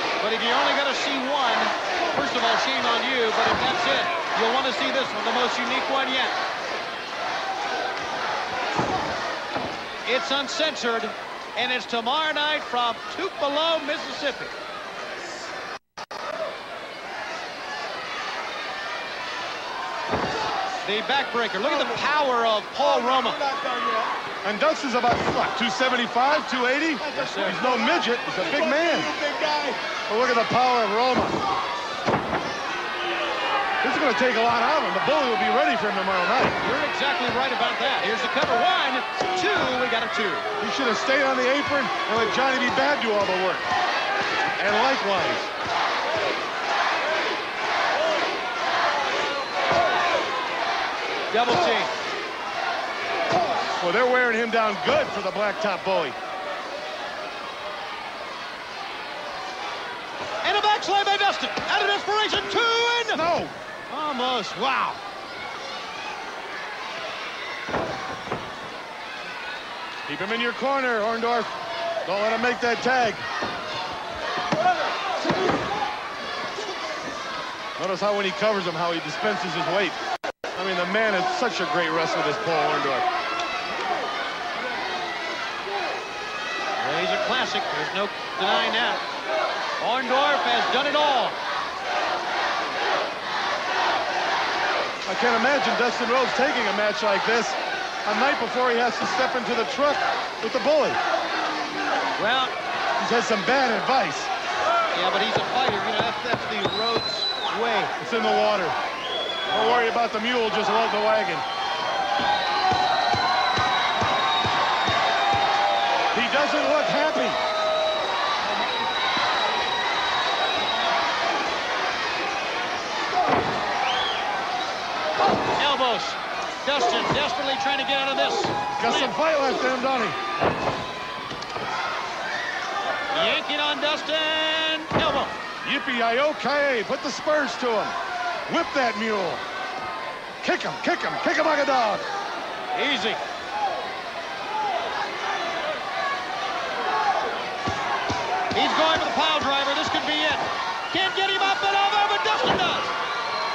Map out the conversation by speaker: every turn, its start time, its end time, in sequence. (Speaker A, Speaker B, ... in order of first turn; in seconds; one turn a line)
Speaker A: 0.2-6.4
Speaker A: 10.0-14.5
Speaker A: 20.8-23.4
Speaker B: 24.4-29.3
Speaker A: 27.0-27.7
Speaker B: 29.9-31.4
Speaker B: 33.8-36.6
Speaker A: 36.6-40.5
Speaker B: 40.6-43.7
Speaker B: 44.6-45.5
Speaker A: 51.3-51.9
Speaker B: 53.8-56.1
Speaker A: 60.4-63.2
Speaker B: 63.1-63.5
Speaker A: 63.9-65.0
Speaker B: 70.0-71.5
Speaker B: 72.0-73.2
Speaker B: 77.8-80.0
Speaker B: 80.5-83.1
Speaker A: 86.8-89.0
Speaker A: 89.8-91.4
Speaker B: 95.0-101.0
Speaker A: 102.2-102.5
Speaker B: 103.0-104.3
Speaker A: 104.9-107.9
Speaker B: 108.0-108.8
Speaker B: 109.5-111.4
Speaker B: 116.1-117.4
Speaker A: 125.5-129.1
Speaker B: 128.7-130.2
Speaker A: 133.1-135.4
Speaker B: 135.6-137.9
Speaker B: 138.5-139.4
Speaker B: 140.4-142.1
Speaker A: 142.7-143.2
Speaker A: 148.5-152.9